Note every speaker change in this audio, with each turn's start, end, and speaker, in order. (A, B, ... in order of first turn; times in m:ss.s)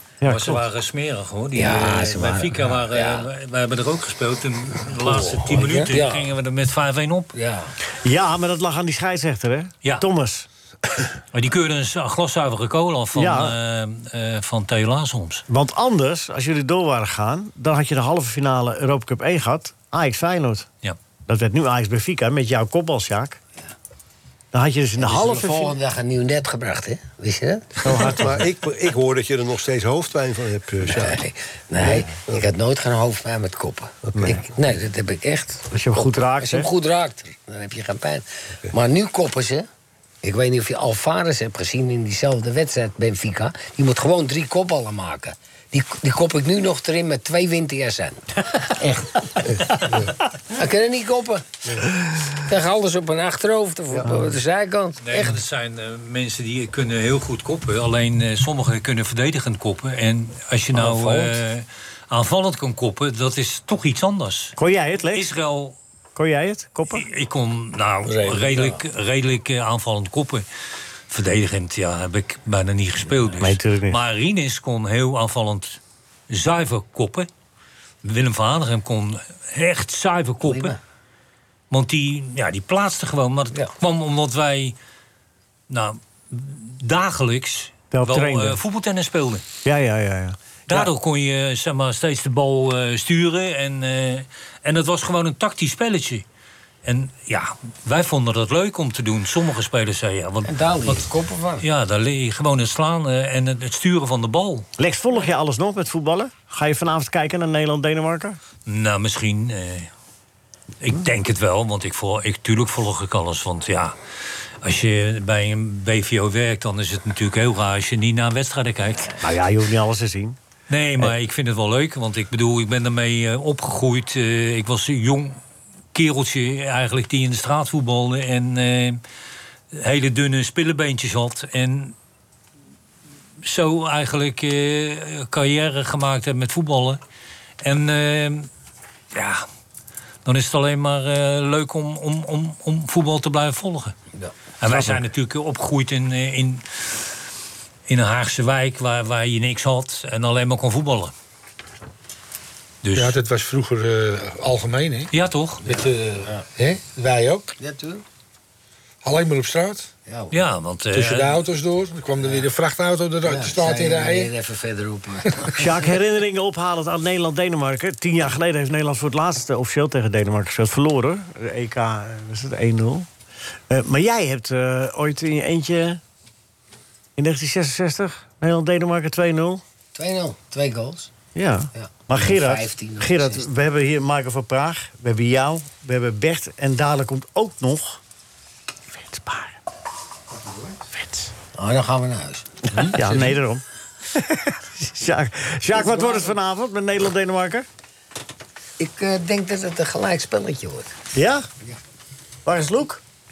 0:00.2-0:00.6 A
0:00.2-0:07.3 B
0:01.5-0:03.3 C
0:05.0-0:06.3 C
0:07.3-0:07.7 C
0:08.0-0:10.5 A
0:11.3-0:15.4 B
0:13.1-0:13.6 A
0:15.5-0:20.7 A
0:21.3-0:23.4 A
0:24.5-0:25.7 A
0:25.0-0:28.0 C
0:27.8-0:28.3 A
0:28.0-0:31.2 D
0:30.9-0:39.7 C
0:31.9-0:32.4 D
0:34.1-0:34.4 D
0:35.7-0:36.7 A
0:40.2-0:49.3 C
0:50.5-0:55.4 C
0:55.0-1:04.6 B
1:00.8-1:01.3 C
1:04.6-1:05.3 A
1:05.1-1:05.8 B
1:06.1-1:07.1 A
1:06.9-1:10.4 B
1:08.0-1:08.7 E
1:11.1-1:17.3 B
1:13.4-1:14.0 A
1:18.0-1:20.8 B
1:20.4-1:20.8 C
1:21.7-1:24.8 B
1:25.7-1:29.4 B
1:27.9-1:28.6 A
1:29.6-1:30.9 A
1:30.7-1:36.2 B
1:36.8-1:41.1 B
1:40.4-1:41.6 C
1:41.6-1:44.7 B
1:44.8-1:48.4 A
1:48.6-1:49.9 B
1:50.8-1:54.0 B
1:54.6-1:59.2 B
1:59.2-2:00.4 A
2:00.7-2:05.4 B
2:05.9-2:09.0 B
2:09.7-2:11.9 B
2:13.4-2:17.0 B
2:17.6-2:18.5 B
2:19.1-2:19.4 B
2:20.2-2:23.9 B
2:24.6-2:27.1 B
2:24.7-2:25.0 A
2:27.9-2:31.1 B
2:32.8-2:33.2 B
2:32.9-2:35.1 E
2:35.1-2:35.6 B
2:35.6-2:36.5 C
2:35.6-2:37.5 E
2:37.6-2:38.0 C
2:39.0-2:39.9 E
2:40.1-2:40.4 C
2:40.3-2:41.4 B
2:40.9-2:44.3 E
2:42.2-2:42.5 C
2:43.2-2:45.7 C
2:45.5-2:53.1 A
2:53.7-2:56.0 A
2:57.2-2:59.6 A
2:59.9-3:01.1 C
3:01.3-3:08.0 A
3:01.7-3:03.4 C
3:08.9-3:09.6 A
3:10.9-3:11.3 A
3:11.5-3:13.1 C
3:12.8-3:13.3 E
3:12.9-3:17.7 A
3:15.7-3:16.3 C
3:18.8-3:20.9 C
3:21.1-3:21.5 A
3:22.4-3:23.0 A